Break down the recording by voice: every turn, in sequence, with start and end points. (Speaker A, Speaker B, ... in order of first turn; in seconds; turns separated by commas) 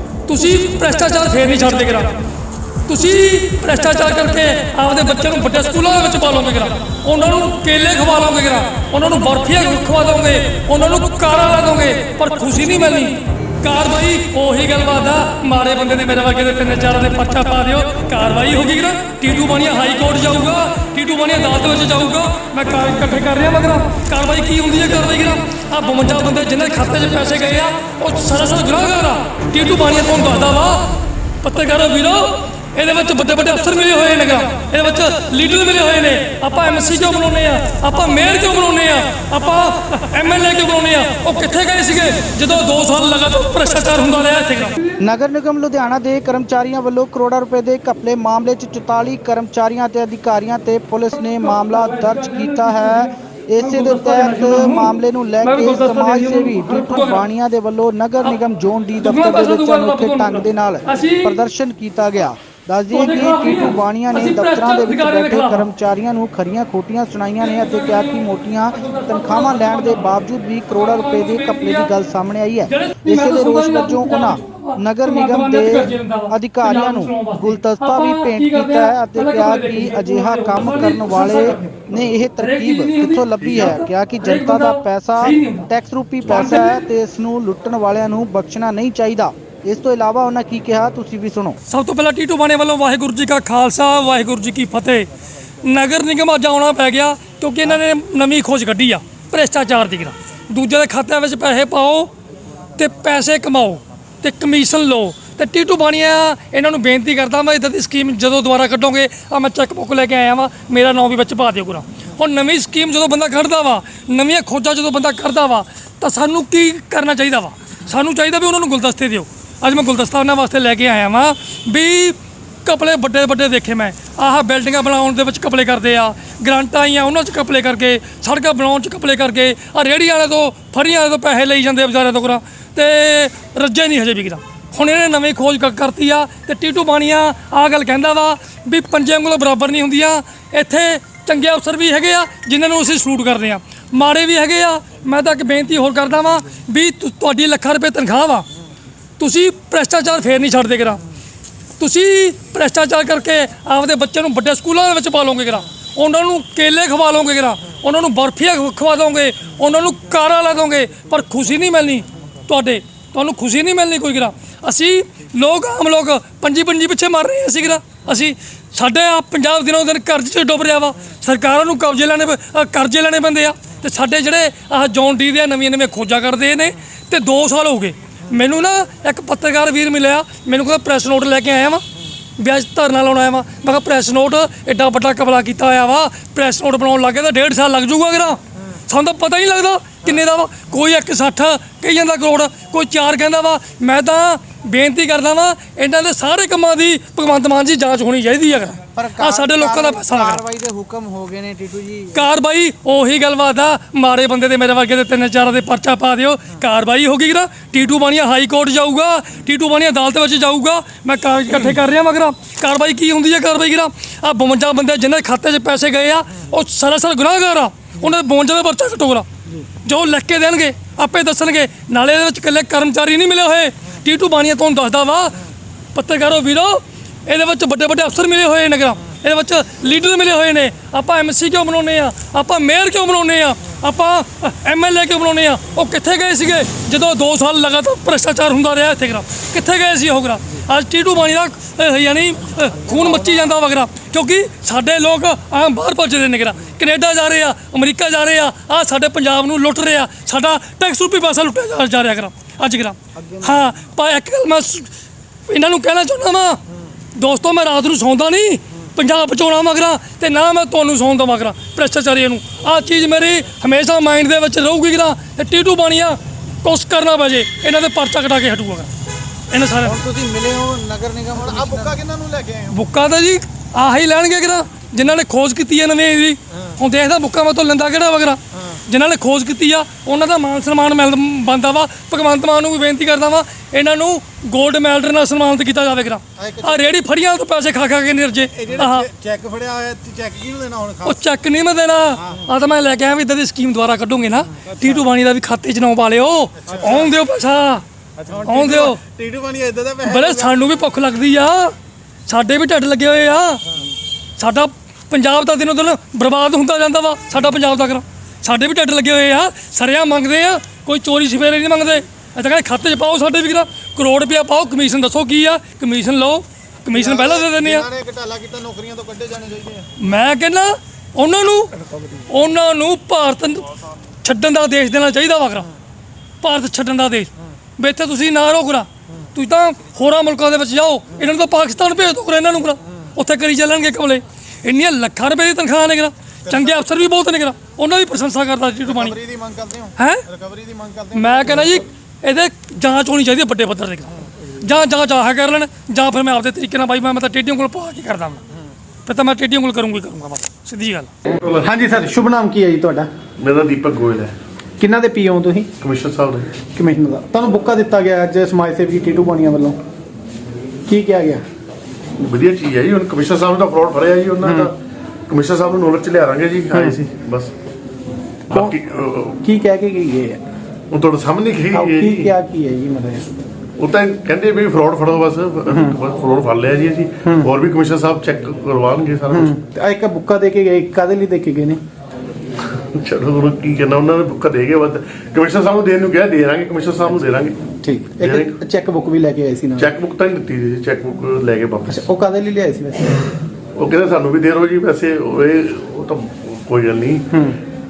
Speaker A: 0.3-2.1, Speaker A: 2.9-45.0, Speaker B: 45.0-91.6, Speaker A: 51.2-57.3, Speaker A: 59.0-61.4, Speaker A: 62.9-65.7, Speaker A: 67.4-71.9, Speaker A: 72.7-85.7, Speaker C: 83.4-83.7, Speaker A: 86.2-86.8, Speaker A: 91.7-95.1, Speaker A: 95.6-102.1, Speaker A: 102.8-148.5, Speaker A: 149.2-151.0, Speaker A: 151.8-181.8, Speaker A: 182.4-200.4, Speaker B: 199.1-202.0, Speaker A: 202.1-219.3, Speaker A: 219.8-225.4, Speaker A: 225.9-254.9, Speaker A: 255.5-256.6, Speaker A: 257.1-268.9, Speaker A: 269.5-270.0, Speaker B: 269.9-271.9, Speaker D: 271.7-272.6, Speaker E: 271.9-272.4, Speaker A: 272.7-289.1, Speaker E: 290.0-290.4, Speaker D: 290.9-291.1, Speaker A: 291.0-297.8, Speaker A: 298.4-299.0, Speaker E: 299.2-299.9, Speaker D: 300.0-300.5, Speaker A: 300.0-301.7, Speaker A: 302.3-303.6, Speaker A: 304.4-317.9, Speaker D: 317.1-318.2, Speaker E: 318.4-319.8, Speaker A: 320.0-321.7, Speaker A: 322.3-323.7, Speaker A: 324.2-325.7, Speaker A: 326.4-339.2, Speaker D: 339.0-339.8, Speaker A: 339.9-340.2, Speaker D: 340.4-341.5, Speaker A: 341.1-348.4, Speaker A: 349.1-351.1, Speaker E: 351.3-353.1, Speaker C: 353.4-354.3, Speaker E: 354.8-355.7, Speaker C: 355.8-356.5, Speaker E: 356.7-359.8, Speaker E: 360.9-361.4, Speaker C: 362.2-364.7, Speaker E: 364.4-364.7, Speaker C: 365.3-367.5, Speaker E: 368.5-368.8, Speaker C: 368.5-369.4, Speaker E: 369.4-370.4, Speaker C: 370.9-372.3, Speaker E: 371.7-373.3, Speaker C: 373.8-379.6, Speaker E: 375.7-375.9, Speaker E: 379.3-381.8, Speaker C: 382.7-387.6, Speaker E: 387.8-389.9, Speaker C: 388.2-388.6, Speaker C: 389.8-392.1, Speaker E: 391.9-393.3, Speaker C: 393.8-397.4, Speaker E: 397.3-397.6